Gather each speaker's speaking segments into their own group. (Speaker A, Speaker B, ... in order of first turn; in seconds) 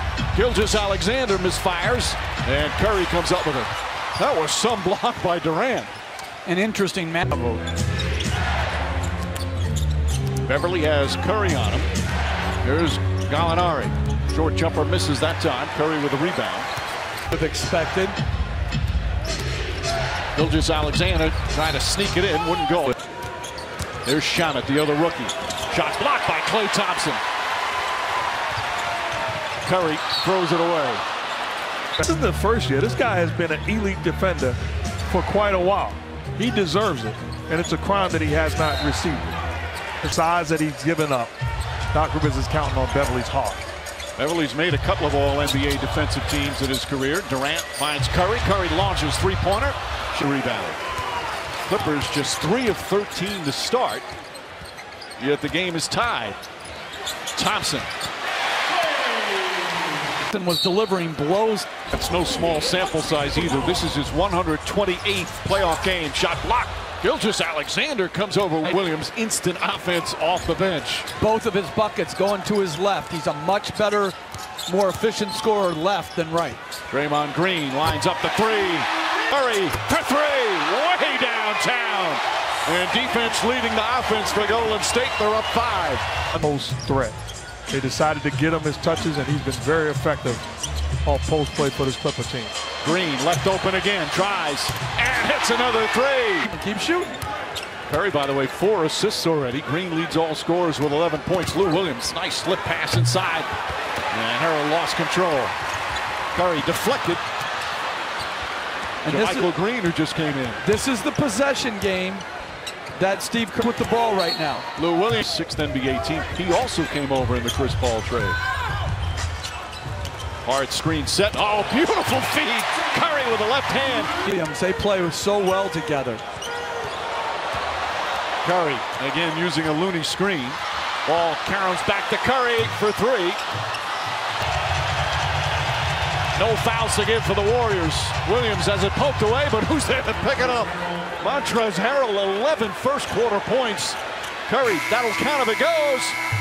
Speaker A: 0.3-5.9, 10.4-11.9, 12.6-16.7, 20.3-23.0, 24.0-27.2, 29.6-31.0, 44.1-50.8, 51.7-54.0, 55.2-56.4, 57.3-57.9, 61.9-71.1, 76.9-86.0, 92.8-96.5, 97.9-103.5, 104.1-105.5, 106.3-107.2, 109.0-110.6, 114.8-118.4, 120.4-124.1, 128.4-133.4, 136.3-146.2
Speaker B: 6.5-7.4, 17.3-18.2, 60.3-61.7, 71.2-76.6, 96.4-97.2, 109.0-109.5, 110.6-112.2, 112.9-114.7, 124.2-126.2
Speaker C: 7.3-7.6, 32.0-39.3, 40.0-41.3, 41.9-43.6, 86.3-87.2, 87.7-90.4, 91.0-92.5